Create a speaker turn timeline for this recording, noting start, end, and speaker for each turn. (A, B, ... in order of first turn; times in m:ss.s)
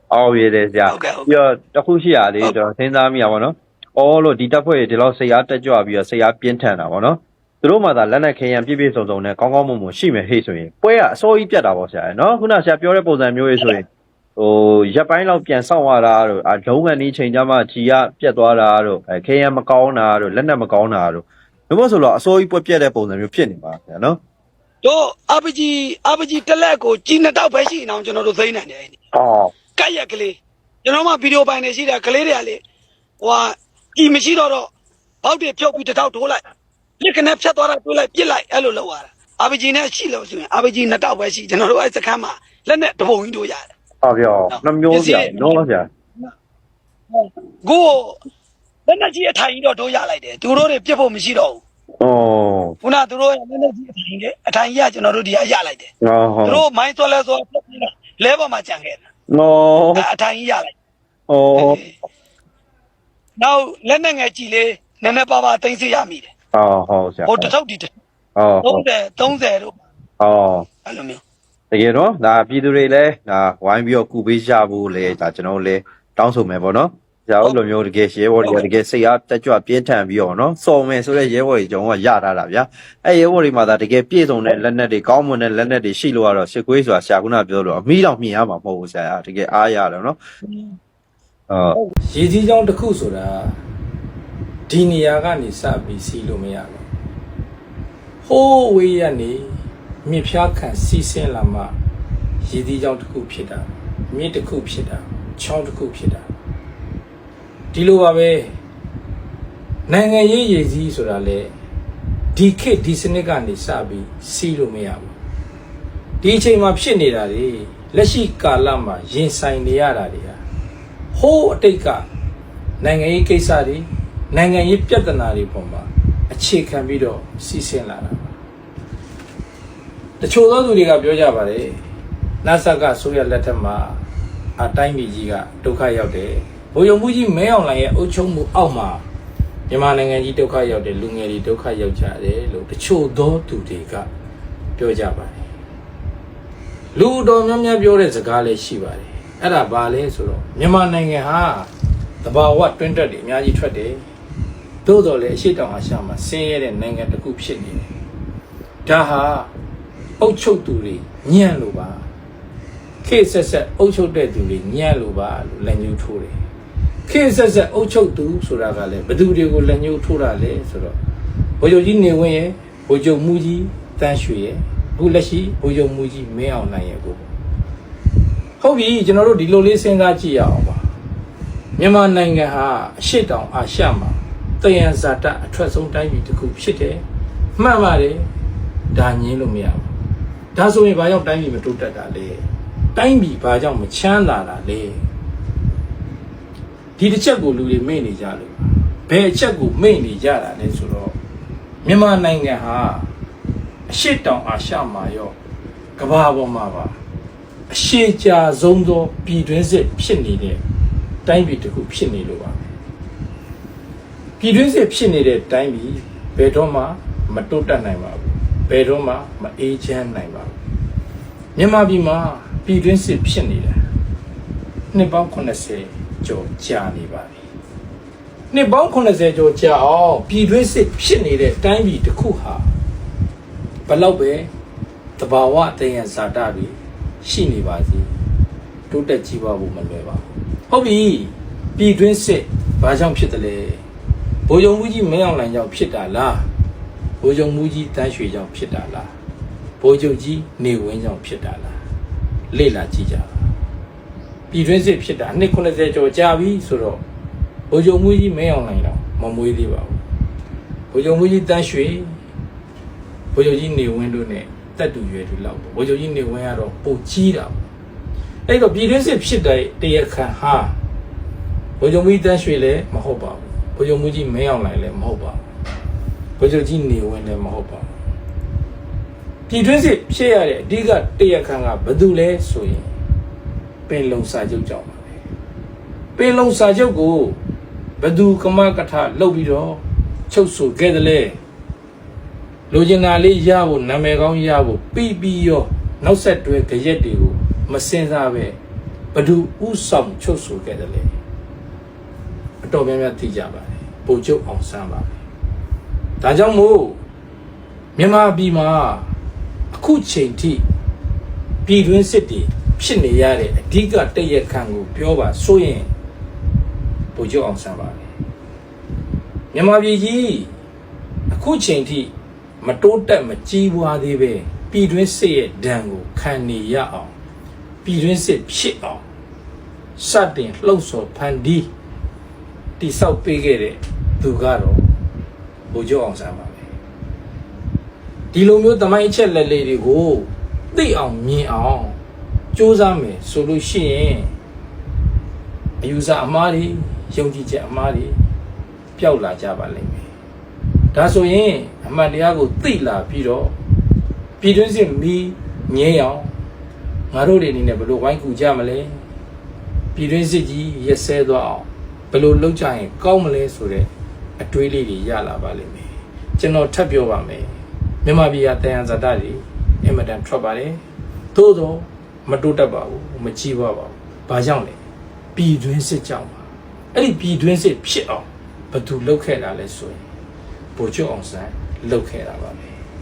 0:00.1-0:13.8 A
0:00.8-0:01.2 B
0:14.4-0:24.2 A
0:24.8-0:29.0 B
0:29.1-0:29.5 A
0:29.7-0:32.6 B
0:33.2-0:34.7 B
0:35.2-0:36.4 B
0:37.0-0:43.7 B
0:44.0-0:45.8 A
0:44.5-0:45.6 B
0:47.1-0:48.2 B
0:48.9-0:51.6 B
0:52.0-0:52.8 A
0:52.8-0:55.9 B
0:56.0-0:56.6 A
0:56.4-0:59.0 B
0:59.3-1:00.0 A
0:59.9-1:00.7 B
1:01.3-1:01.8 A
1:01.5-1:01.9 B
1:03.4-1:06.3 B
1:06.5-1:07.5 A
1:07.3-1:07.9 B
1:08.4-1:08.8 A
1:08.6-1:09.8 B
1:10.2-1:10.7 A
1:10.8-1:11.2 B
1:11.7-1:30.2 A
1:30.4-1:30.8 B
1:31.5-1:31.8 A
1:32.1-1:33.6 C
1:34.7-1:36.8 C
1:38.2-1:41.7 C
1:42.4-1:46.3 C
1:47.7-1:48.5 C
1:49.9-1:51.5 C
1:52.3-1:55.2 C
1:56.2-2:00.4 C
2:01.1-2:02.1 C
2:02.8-2:08.3 C
2:10.2-2:11.8 C
2:12.4-2:14.0 C
2:14.6-2:19.0 C
2:19.7-2:24.1 C
2:24.8-2:25.4 C
2:26.9-2:31.7 C
2:32.2-2:34.0 C
2:34.8-2:37.9 C
2:38.8-2:39.5 C
2:40.2-2:42.0 C
2:43.0-2:46.4 C
2:47.0-2:51.0 C
2:51.6-2:57.3 C
2:58.6-3:00.9 C
3:01.8-3:07.0 C
3:07.6-3:08.3 C
3:08.9-3:09.9 C
3:10.5-3:12.4 C
3:12.9-3:15.0 C
3:17.0-3:21.2 C
3:21.8-3:23.1 C
3:23.9-3:25.4 C
3:26.0-3:27.0 C
3:27.7-3:30.6 C
3:31.2-3:32.7 C
3:34.4-3:40.6 C
3:41.5-3:43.8 C
3:44.9-3:47.4 C
3:48.5-3:52.7 C
3:53.8-3:54.5 C
3:55.2-3:58.1 C
3:58.9-4:03.8 C
4:04.5-4:06.5 C
4:07.2-4:09.1 C
4:09.8-4:11.8 C
4:12.5-4:13.3 C
4:14.5-4:17.0 C
4:17.7-4:20.0 C
4:20.9-4:22.2 C
4:23.3-4:27.7 C
4:28.5-4:30.8 C
4:31.8-4:35.4 C
4:36.4-4:37.9 C
4:39.5-4:42.9 C
4:43.9-4:45.2 C
4:46.2-4:47.4 C
4:48.0-4:51.4 C
4:52.7-4:58.6 C
4:59.1-5:01.1 C
5:02.6-5:05.2 C
5:06.2-5:07.0 C
5:08.0-5:09.1 C
5:09.7-5:10.6 C
5:11.6-5:15.9 C
5:17.1-5:18.0 C
5:19.5-5:20.5 C
5:21.3-5:27.1 C
5:27.8-5:29.0 C
5:30.0-5:31.7 C
5:32.8-5:34.9 C
5:35.7-5:36.6 C
5:38.3-5:42.0 C
5:42.5-5:44.3 C
5:45.8-5:48.2 C
5:49.0-5:50.1 C
5:50.9-5:53.5 C
5:54.4-5:56.3 C
5:57.1-5:59.0 C
5:59.9-6:10.8 C
6:11.3-6:14.8 C
6:15.3-6:16.4 C
6:16.9-6:20.0 C
6:20.7-6:22.7 C